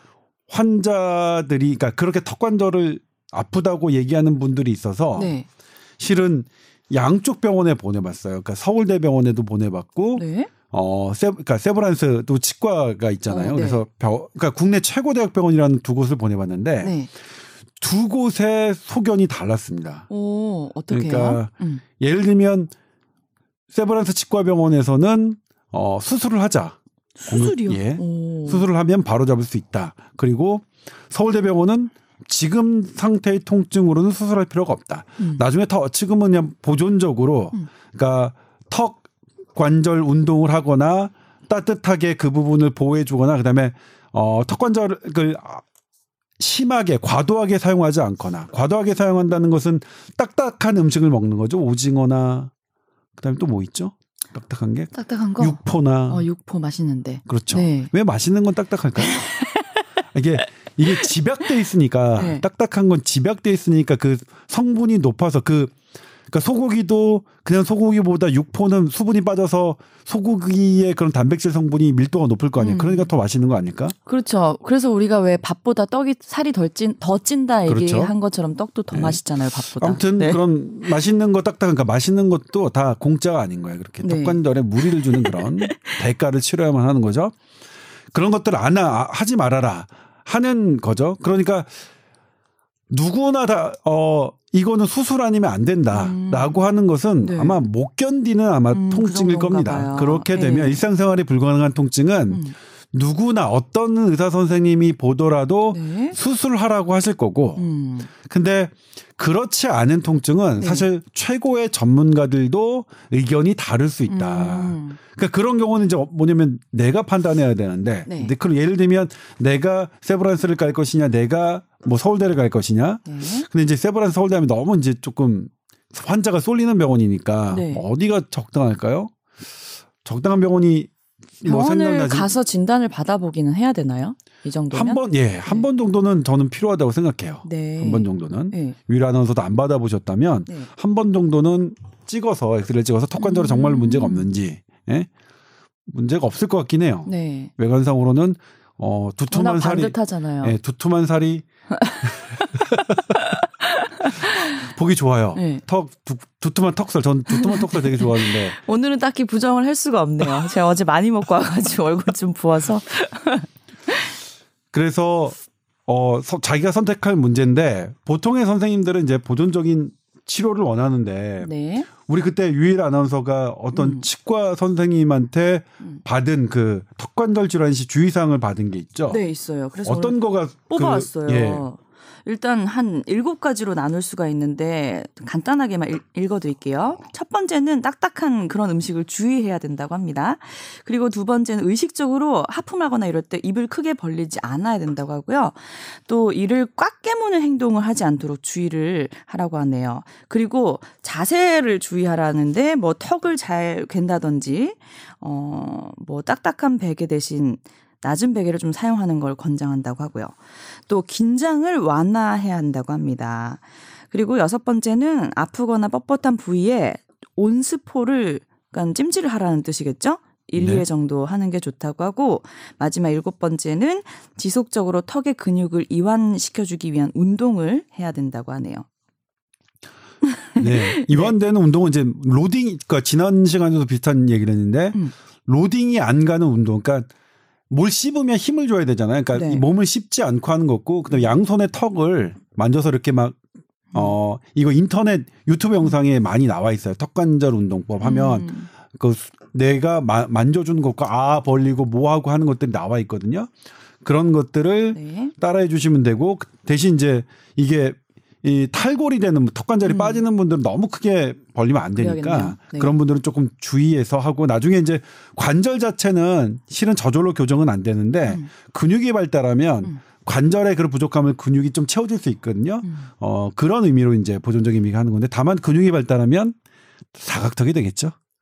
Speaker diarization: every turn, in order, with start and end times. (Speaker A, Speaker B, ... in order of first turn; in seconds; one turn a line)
Speaker A: 0.5-5.4
Speaker B: 5.2-5.5
Speaker A: 6.0-17.0
Speaker B: 10.2-10.5
Speaker B: 13.3-13.8
Speaker B: 16.8-17.1
Speaker A: 17.8-20.1
Speaker B: 20.1-21.8
Speaker A: 20.9-22.7
Speaker A: 23.7-26.8
Speaker B: 27.2-28.7
Speaker A: 27.3-45.6
Speaker A: 46.4-52.5
Speaker A: 53.2-56.3
Speaker B: 54.9-57.9
Speaker A: 57.3-59.3
Speaker B: 59.0-59.8
Speaker A: 60.1-65.8
Speaker B: 62.2-62.5
Speaker A: 66.3-74.0
Speaker B: 72.6-73.1
Speaker B: 74.0-81.0
Speaker A: 77.7-78.1
Speaker A: 78.9-87.4
Speaker B: 84.0-86.0
Speaker A: 88.1-91.7
Speaker A: 92.9-107.7
Speaker B: 95.9-96.6
Speaker B: 97.2-97.6
Speaker B: 98.7-100.8
Speaker B: 105.7-106.2
Speaker B: 107.6-108.1
Speaker A: 108.2-129.1
Speaker B: 110.6-110.9
Speaker B: 114.1-115.0
Speaker B: 118.1-118.3
Speaker B: 123.1-123.5
Speaker B: 127.5-127.9
Speaker A: 130.0-132.3
Speaker B: 131.4-135.7
Speaker A: 134.7-145.1
Speaker B: 137.4-138.8
Speaker B: 143.2-144.3
Speaker A: 145.9-151.4
Speaker B: 147.1-147.5
Speaker B: 149.3-150.6
Speaker B: 151.8-152.1
Speaker B: 153.1-154.4
Speaker A: 154.5-158.6
Speaker B: 155.3-155.6
Speaker B: 157.3-163.9
Speaker A: 164.7-179.2
Speaker B: 171.4-171.9
Speaker B: 173.7-174.1
Speaker B: 179.1-228.9
Speaker A: 179.8-181.7
Speaker A: 220.6-220.8
Speaker B: 230.2-231.3
Speaker A: 230.6-237.1
Speaker A: 237.7-243.4
Speaker B: 239.3-239.7
Speaker A: 243.9-253.5
Speaker B: 248.0-248.7
Speaker A: 254.0-276.6
Speaker B: 254.9-255.3
Speaker B: 259.8-260.2
Speaker B: 262.0-262.9
Speaker A: 277.2-278.1